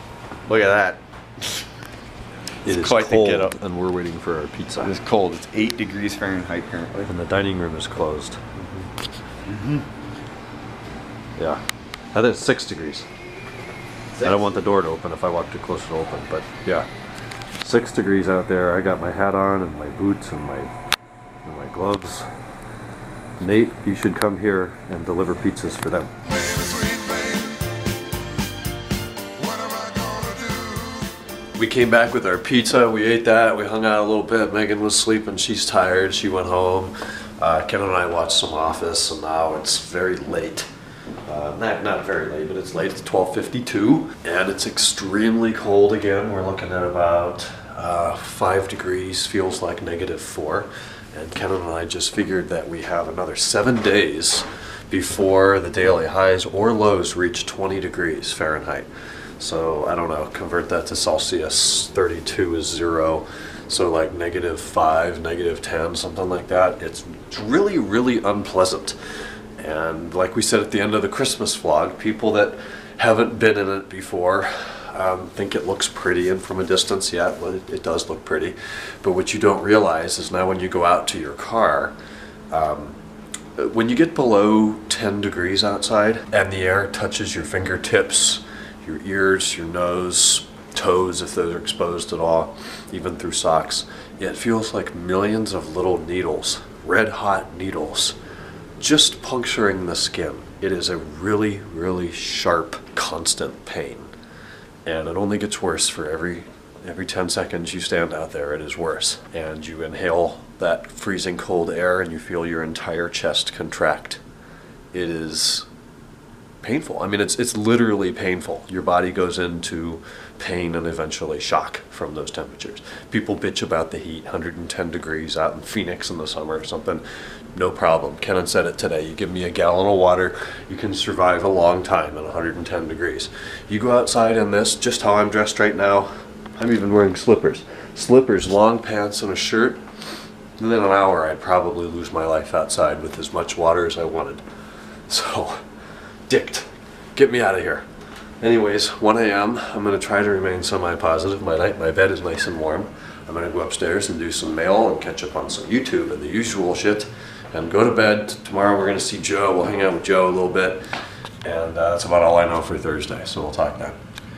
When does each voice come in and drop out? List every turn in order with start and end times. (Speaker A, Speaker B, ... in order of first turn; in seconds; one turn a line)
Speaker A: 0.5-1.0
Speaker A: 2.6-3.5
Speaker B: 2.6-5.0
Speaker A: 4.8-7.1
Speaker B: 7.0-8.4
Speaker A: 9.5-9.8
Speaker B: 12.1-13.1
Speaker A: 14.2-14.5
Speaker B: 14.2-16.9
Speaker B: 17.6-20.7
Speaker B: 21.4-22.3
Speaker B: 23.4-27.0
Speaker B: 31.6-40.7
Speaker B: 41.3-58.9
Speaker B: 59.4-69.0
Speaker B: 69.6-82.0
Speaker B: 82.5-83.0
Speaker B: 83.6-98.2
Speaker B: 98.8-104.1
Speaker B: 104.8-114.2
Speaker B: 114.9-115.7
Speaker B: 116.6-127.0
Speaker B: 127.5-139.8
Speaker B: 140.6-144.4
Speaker B: 145.1-145.6
Speaker B: 146.3-147.9
Speaker B: 148.4-160.8
Speaker B: 161.4-164.0